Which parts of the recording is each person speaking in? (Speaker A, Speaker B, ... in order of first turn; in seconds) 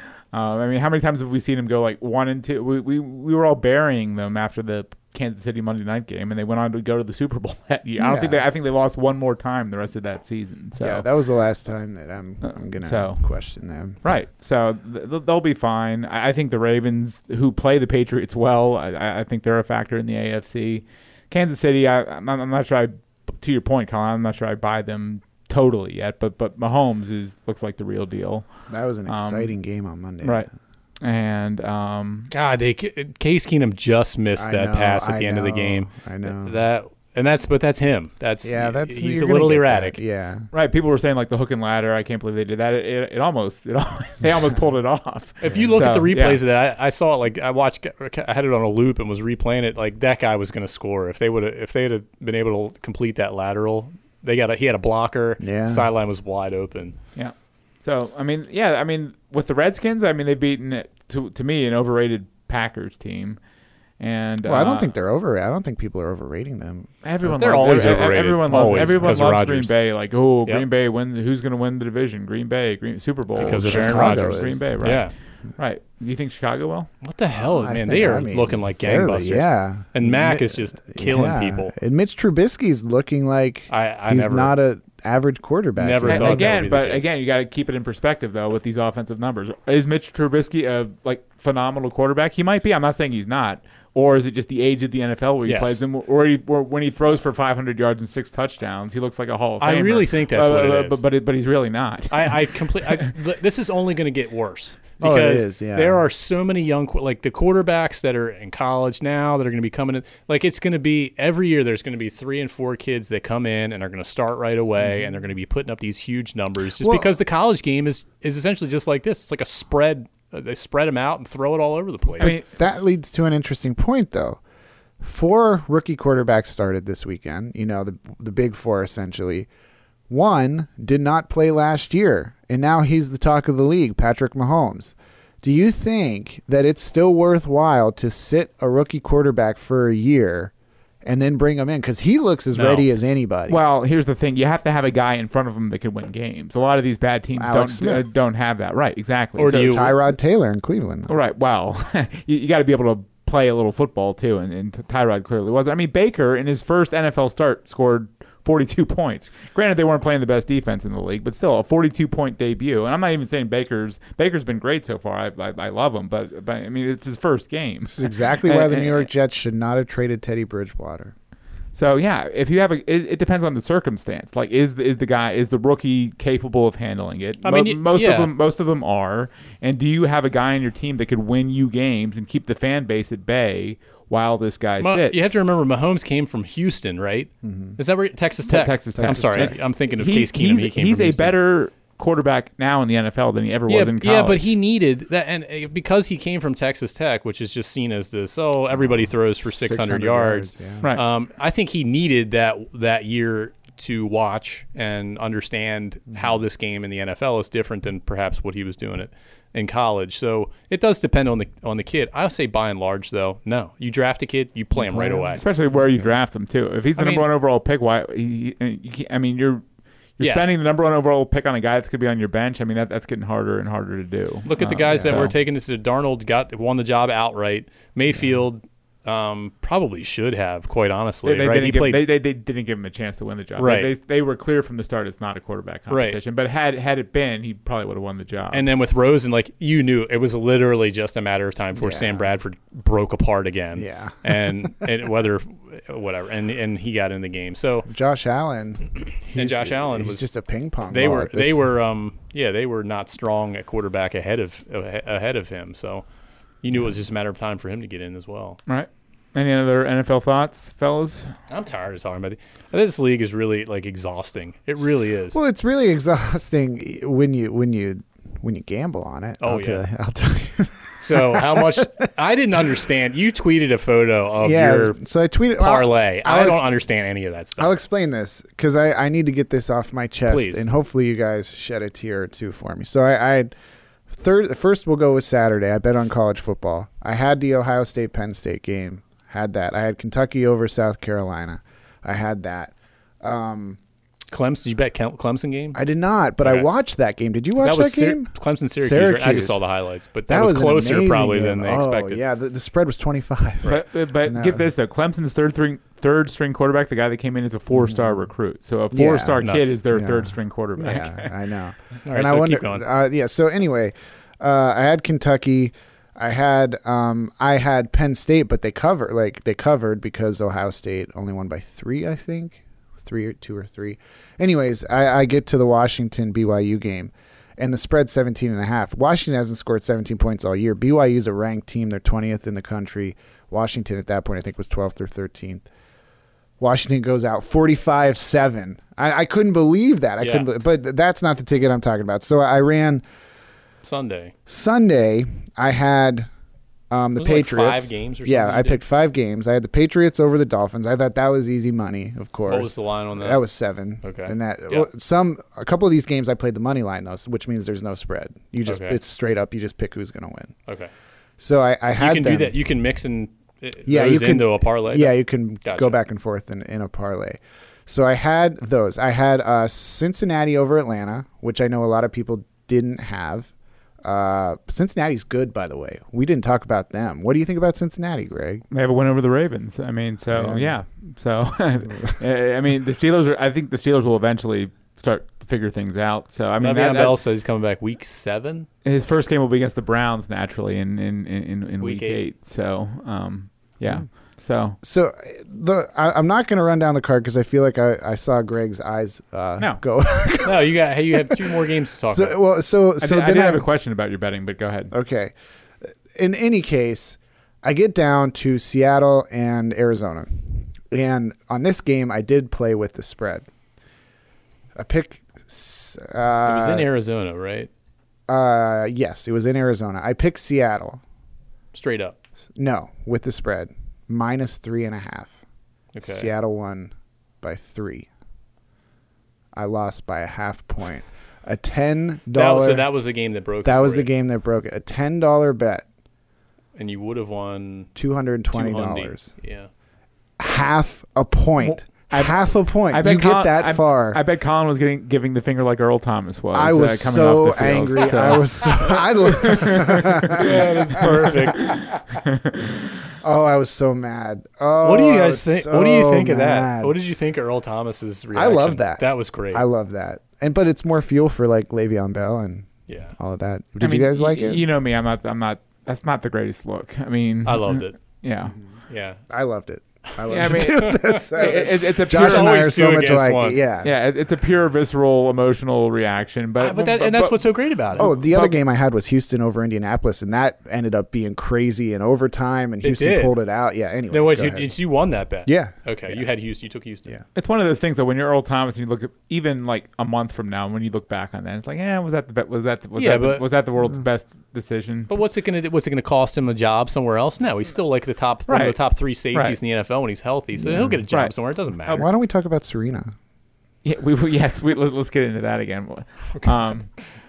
Speaker A: 0.3-11.1, 12.4-13.2, 14.0-28.5, 29.1-29.5, 30.2-30.5, 31.0-32.3, 40.5-46.4, 57.1-63.4, 64.0-64.9, 67.0-76.9, 86.1-103.1, 122.2-122.4, 143.5-149.9, 151.1-169.1, 171.7-185.3, 188.5-194.4, 215.3-219.6, 220.2-225.3, 231.2-238.7, 258.7-261.3, 303.6-311.3, 378.7-387.2, 388.8-394.8, 403.0-404.9, 441.9-452.8, 463.8-468.5, 470.3-472.5, 473.8-477.4, 487.3-495.1, 498.5-498.8, 503.8-506.9
Speaker B: 8.0-8.4, 10.8-14.0, 28.7-30.4, 34.4-36.5, 38.4-40.5, 55.4-55.9, 64.4-66.9, 73.4-74.6, 77.4-86.6, 105.0-106.0, 116.8-117.1, 122.2-124.4, 125.0-129.5, 130.1-140.5, 141.0-143.6, 147.4-148.0, 149.6-151.1, 167.9-171.1, 187.4-187.8, 188.9-189.5, 199.4-200.8, 214.8-215.4, 224.9-225.3, 241.8-242.4, 243.8-244.4, 247.9-251.6, 265.3-272.0, 274.4-276.6, 277.6-283.5, 284.1-293.8, 295.7-299.6, 300.3-304.6, 307.8-308.2, 308.9-335.6, 336.6-343.0, 344.5-346.3, 346.9-360.6, 361.4-362.5, 363.9-373.5, 374.0-378.6, 380.3-380.7, 394.8-403.6, 404.9-405.3, 406.1-413.5, 414.8-416.9, 418.3-421.0, 422.6-425.3, 426.0-428.1, 429.5-432.9, 433.6-435.8, 437.9-439.3, 440.4-444.2, 446.5-451.8, 453.2-456.9, 458.3-464.6, 469.3-473.9, 478.0-484.7, 485.4-486.2, 500.6-501.0, 501.9-503.1
Speaker C: 32.3-40.0, 45.4-57.0, 67.2-69.7, 73.4-75.1, 77.0-81.7, 83.7-84.5, 85.8-87.1, 95.5-95.8, 99.6-101.0, 102.1-122.3, 142.5-142.8, 149.4-150.0, 177.4-178.3, 184.8-191.3, 193.7-215.4, 217.0-217.2, 220.2-220.6, 224.4-232.0, 233.6-233.9, 235.9-236.2, 238.5-247.9, 249.3-250.2, 250.8-256.1, 256.6-258.6, 261.5-265.4, 269.4-269.8, 271.0-275.0, 275.6-277.7, 280.3-280.6, 294.3-295.8, 296.4-296.7, 297.6-302.2, 309.4-309.7, 312.0-312.9, 340.2-340.5, 343.8-344.3, 347.2-348.8, 352.5-353.4, 354.0-354.9, 358.6-359.0, 361.9-366.0, 386.6-388.7, 391.8-392.2, 400.4-402.4, 416.4-417.7, 421.7-422.1, 425.9-426.3, 432.3-434.1, 436.8-437.9, 438.5-439.7, 450.2-451.8, 454.8-459.6, 462.9-463.1, 467.4-467.9, 468.9-469.2, 470.3-473.6, 476.6-478.5, 482.8-483.4, 484.1-487.1, 492.9-493.4, 495.1-502.1